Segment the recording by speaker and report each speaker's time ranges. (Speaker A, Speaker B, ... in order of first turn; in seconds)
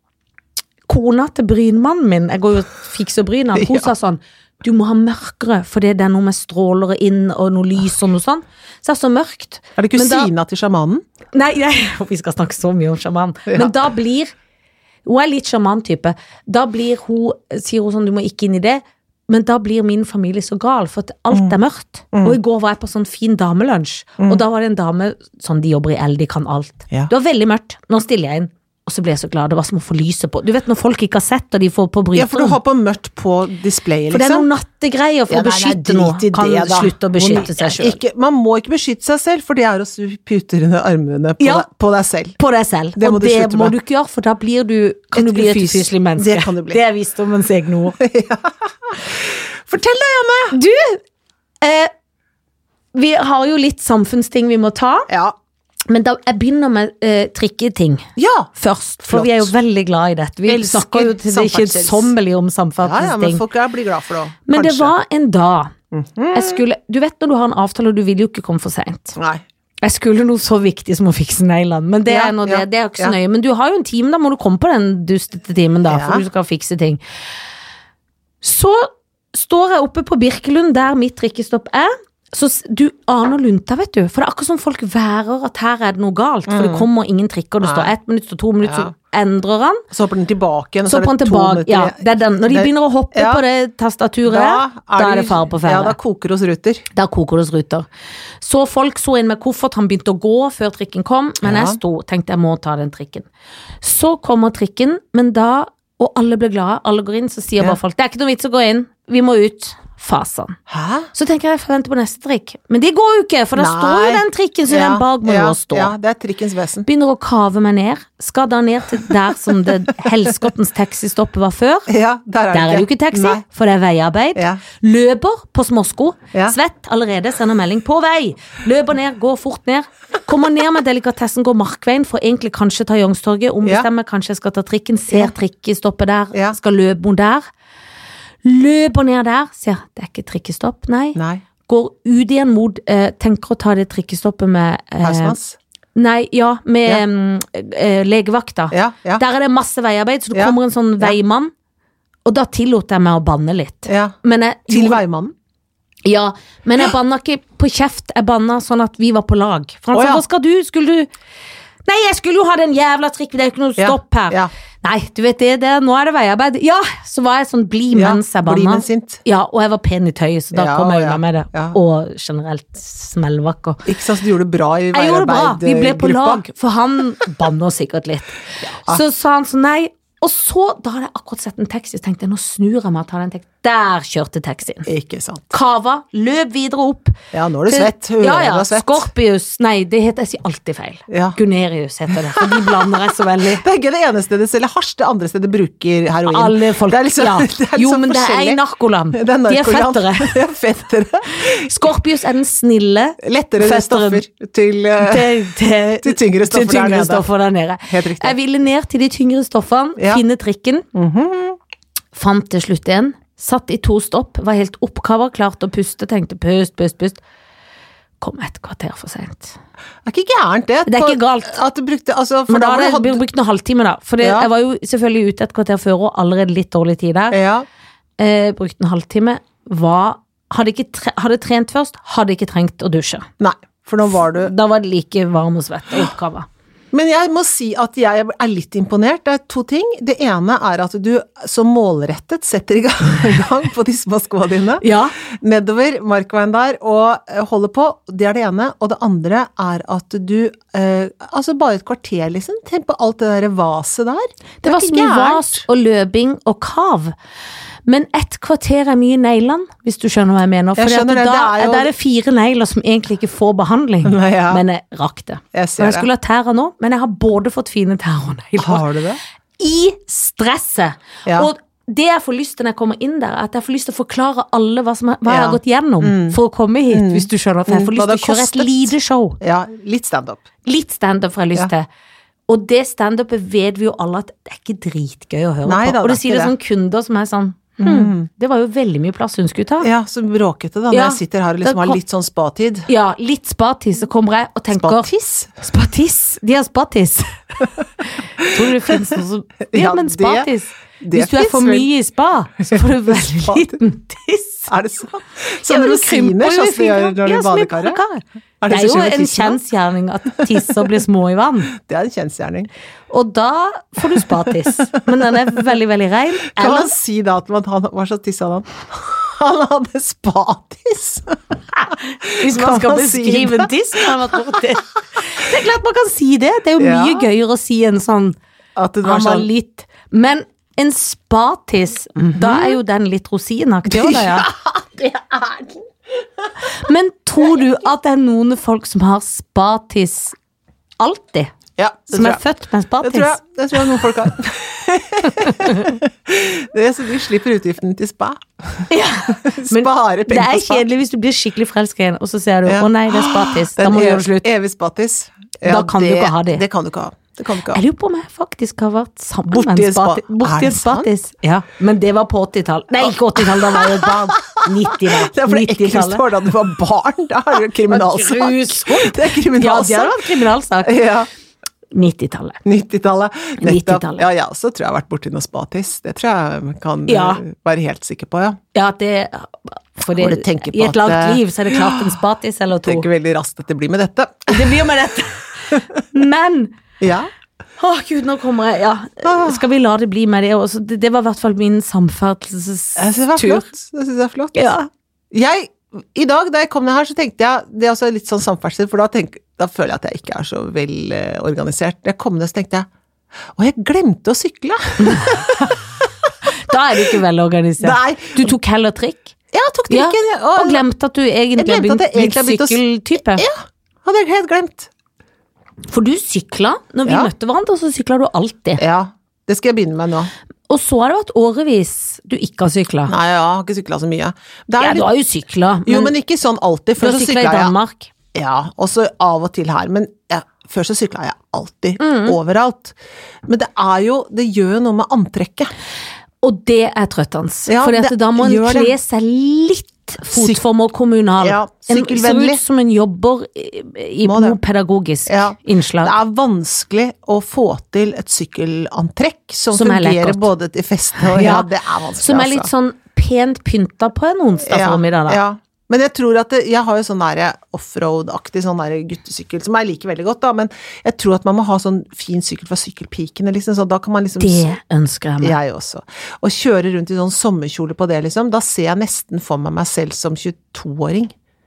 Speaker A: 0.9-10.3, 11.3-14.3, 15.1-32.6, 34.1-38.0, 41.4-41.7, 42.4-48.0, 50.5-51.0, 51.6-51.9, 52.9-55.1, 55.9-63.4, 64.5-65.7, 66.3-69.2, 69.8-77.0, 78.4-89.8, 90.9-96.0, 96.9-97.9, 98.4-103.3, 103.8-110.6, 111.1-115.9, 116.9-121.9, 122.5-137.5, 138.4-145.4, 145.9-151.5, 152.2-155.0, 156.1-161.1, 161.8-173.9, 174.9-184.9, 185.5-187.2, 187.7-193.7, 196.3-200.4, 201.3-204.2, 205.0-210.9, 212.1-217.2, 218.2-219.6, 220.9-221.6, 222.5-227.4, 228.2-233.3, 234.1-236.5, 244.8-245.2, 254.6-257.1, 257.9-268.9, 269.6-279.4, 280.6-281.9, 282.5-289.9, 290.9-292.0, 292.9-295.1, 295.6-304.7, 305.7-311.7, 313.1-316.9, 322.4-328.4, 329.0-334.5, 336.6-340.4, 341.0-341.5, 342.1-344.1, 345.2-345.9, 348.9-354.5, 355.6-356.6, 357.7-366.2, 367.9-371.0, 371.9-372.6, 373.6-374.3, 377.1-377.4, 378.7-383.1, 384.5-386.7, 387.8-393.7, 394.6-394.9, 405.0-405.4, 406.5-409.3, 409.9-413.5, 415.9-418.8, 420.7-423.1, 424.8-426.1, 427.0-428.1, 432.0-432.4, 436.4-446.2, 449.7-450.5, 451.2-455.4, 464.4-465.6
Speaker B: 3.5-3.9, 9.8-11.0, 13.5-13.8, 32.1-34.5, 35.3-42.4, 43.0-43.8, 45.1-46.8, 48.0-50.6, 55.1-55.4, 58.2-58.5, 59.0-59.5, 60.5-62.1, 62.8-64.9, 65.9-66.6, 69.2-69.4, 72.1-73.2, 75.9-76.2, 86.5-86.9, 87.6-87.9, 88.6-88.9, 89.9-93.4, 94.3-96.9, 101.4-101.8, 110.7-111.1, 113.6-116.9, 120.0-120.3, 121.9-123.4, 124.3-124.6, 141.2-141.4, 145.0-145.6, 148.7-149.2, 150.3-151.2, 153.9-154.2, 154.7-155.3, 159.9-160.2, 163.8-164.5, 167.9-169.2, 170.5-171.8, 173.9-176.4, 178.6-179.0, 184.8-185.5, 187.3-189.1, 191.1-191.4, 192.1-192.9, 193.6-198.6, 199.1-201.9, 203.2-205.3, 206.0-207.3, 207.9-208.3, 210.9-211.6, 220.1-223.2, 224.2-224.5, 227.3-227.7, 233.4-234.5, 236.9-255.7, 260.8-261.9, 264.0-264.6, 265.5-266.1, 268.6-269.2, 275.2-276.4, 276.9-280.4, 285.6-286.5, 287.8-288.3, 289.8-292.9, 294.7-295.5, 299.7-300.5, 301.0-301.9, 302.7-303.8, 304.7-308.0, 308.6-309.6, 310.5-310.8, 311.7-312.7, 316.6-321.6, 322.3-324.4, 326.8-327.3, 328.8-329.5, 332.2-332.8, 333.9-336.7, 341.8-342.4, 343.0-350.9, 352.6-357.8, 359.5-361.1, 363.0-370.2, 370.8-371.3, 372.6-378.6, 380.1-382.2, 382.8-384.8, 387.0-387.3, 389.2-389.6, 393.0-394.7, 395.3-402.9, 403.6-406.3, 407.8-408.5, 409.5-410.8, 411.6-412.8, 413.3-414.9, 417.1-417.3, 418.8-420.3, 423.1-425.1, 425.9-427.7, 428.4-432.9, 433.5-435.7, 437.7-438.9, 440.3-440.6, 441.4-442.6, 444.2-444.6, 445.3-452.7, 454.7-464.8, 465.4-471.3